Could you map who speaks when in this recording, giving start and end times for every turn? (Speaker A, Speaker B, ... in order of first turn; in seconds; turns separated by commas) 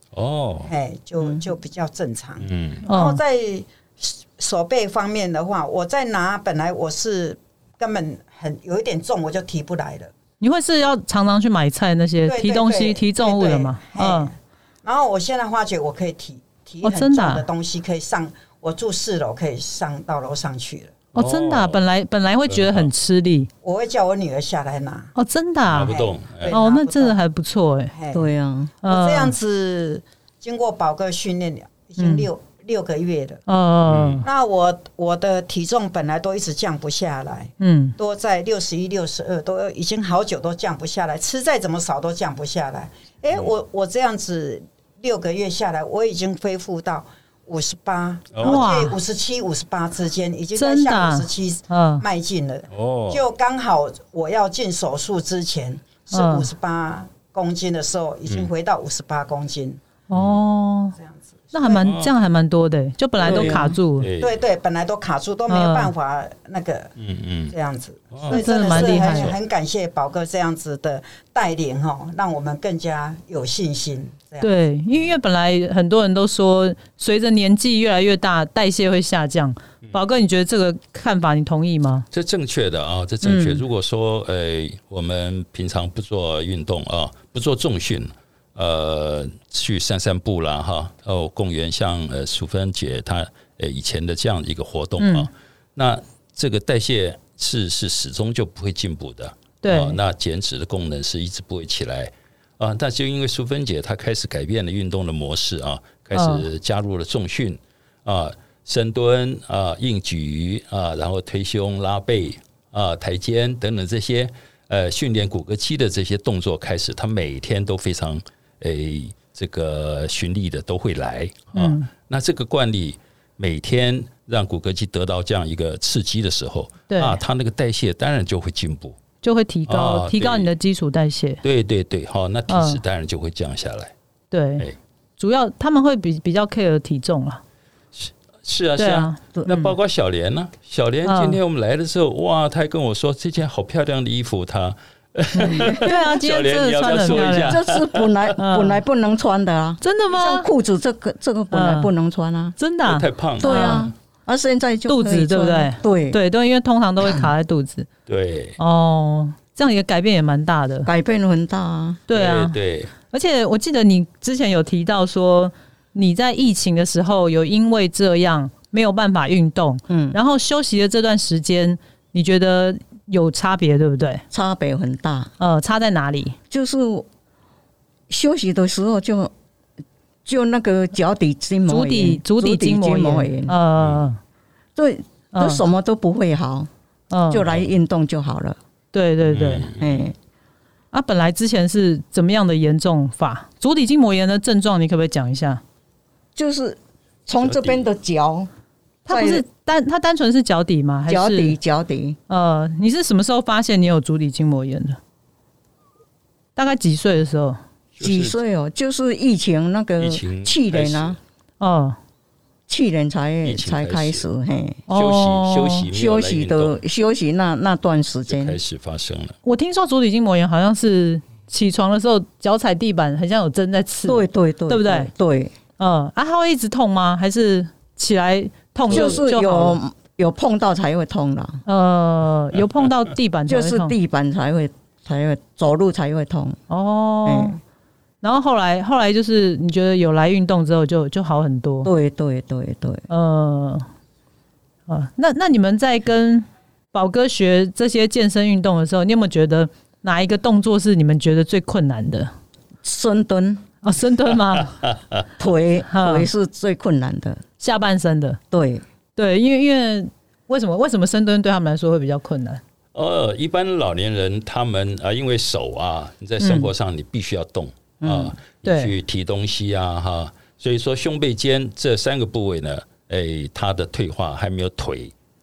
Speaker A: 0.1-0.7, Speaker B: 0.7-10.1, Speaker A: 2.4-2.8, Speaker C: 2.9-3.2, Speaker C: 10.4-14.3, Speaker B: 12.2-20.9, Speaker C: 16.8-17.4, Speaker A: 21.1-21.8, Speaker C: 21.1-23.5, Speaker A: 22.5-22.9, Speaker B: 23.6-25.1, Speaker C: 25.1-25.9, Speaker A: 25.7-26.6, Speaker B: 25.9-27.2, Speaker C: 26.5-27.9, Speaker B: 27.9-28.2, Speaker D: 28.1-28.7, Speaker B: 28.8-33.4, Speaker C: 28.8-29.3, Speaker C: 32.0-32.3, Speaker C: 33.5-34.2, Speaker A: 33.9-34.2, Speaker B: 34.2-59.8, Speaker C: 37.6-38.0, Speaker A: 48.3-48.7, Speaker C: 48.4-49.0, Speaker C: 50.6-52.0, Speaker A: 52.7-53.2, Speaker C: 56.1-56.5, Speaker C: 60.1-61.0, Speaker A: 60.1-60.4, Speaker B: 61.0-61.8, Speaker C: 61.5-64.1, Speaker A: 61.8-62.1, Speaker D: 63.2-63.7, Speaker B: 63.2-63.6, Speaker A: 63.2-64.4, Speaker B: 64.2-66.9, Speaker C: 65.5-65.9, Speaker A: 67.0-67.5, Speaker B: 67.5-74.5, Speaker A: 68.1-69.4, Speaker C: 68.3-69.3, Speaker C: 74.4-82.0, Speaker A: 82.1-129.0, Speaker C: 83.2-83.6, Speaker C: 95.0-95.3, Speaker C: 99.6-100.0, Speaker C: 106.1-106.4, Speaker C: 121.5-121.9, Speaker C: 126.9-127.2, Speaker C: 129.2-131.4, Speaker A: 129.7-130.5, Speaker A: 131.4-133.9, Speaker C: 132.5-132.8, Speaker C: 134.3-134.7, Speaker C: 135.2-137.4, Speaker A: 137.9-148.3, Speaker C: 138.8-139.7, Speaker C: 141.0-141.4, Speaker C: 145.4-147.6, Speaker D: 145.5-145.9, Speaker D: 147.1-152.5, Speaker C: 148.4-148.8, Speaker C: 149.8-150.5, Speaker C: 151.5-151.9, Speaker C: 152.6-153.9, Speaker A: 152.8-153.9, Speaker D: 153.4-156.2, Speaker C: 154.9-157.9, Speaker A: 158.1-158.6, Speaker C: 158.6-160.9, Speaker D: 160.8-162.0, Speaker C: 162.1-162.6, Speaker A: 162.1-162.9, Speaker C: 163.1-174.2, Speaker D: 169.9-170.2, Speaker D: 174.3-175.3, Speaker C: 175.4-176.4, Speaker D: 176.5-177.1, Speaker D: 178.1-179.3, Speaker D: 180.2-183.6, Speaker C: 181.7-184.2, Speaker D: 184.8-186.7, Speaker C: 185.3-185.6, Speaker C: 187.1-187.5, Speaker D: 187.3-188.6, Speaker C: 188.9-189.7, Speaker A: 189.2-190.0, Speaker D: 189.8-190.1, Speaker C: 190.9-195.6, Speaker D: 196.3-198.5, Speaker A: 197.4-197.8, Speaker C: 199.1-201.6, Speaker D: 199.1-199.4, Speaker D: 201.1-202.2, Speaker C: 202.3-205.0, Speaker C: 206.6-207.6, Speaker A: 207.9-208.4, Speaker D: 208.0-211.2, Speaker A: 210.0-211.2, Speaker C: 211.6-212.0, Speaker D: 212.7-214.8, Speaker A: 213.4-214.2, Speaker C: 214.9-215.9, Speaker A: 214.9-216.8, Speaker D: 215.9-218.6, Speaker A: 218.3-219.3, Speaker C: 219.4-225.1, Speaker D: 224.0-225.5, Speaker C: 225.8-229.8, Speaker A: 228.9-229.2, Speaker D: 228.9-231.6, Speaker C: 231.6-233.9, Speaker D: 233.5-236.6, Speaker C: 236.7-237.6, Speaker D: 237.2-237.6, Speaker C: 238.2-241.9, Speaker D: 241.8-243.0, Speaker C: 243.1-243.8, Speaker C: 244.9-252.3, Speaker D: 252.8-253.6, Speaker C: 253.8-254.8, Speaker A: 254.6-255.2, Speaker D: 255.4-257.4, Speaker C: 255.9-256.3, Speaker C: 257.6-258.4, Speaker D: 258.5-258.8, Speaker C: 259.1-262.6, Speaker A: 262.9-275.1, Speaker C: 266.4-266.7, Speaker D: 268.0-268.3, Speaker C: 268.6-268.9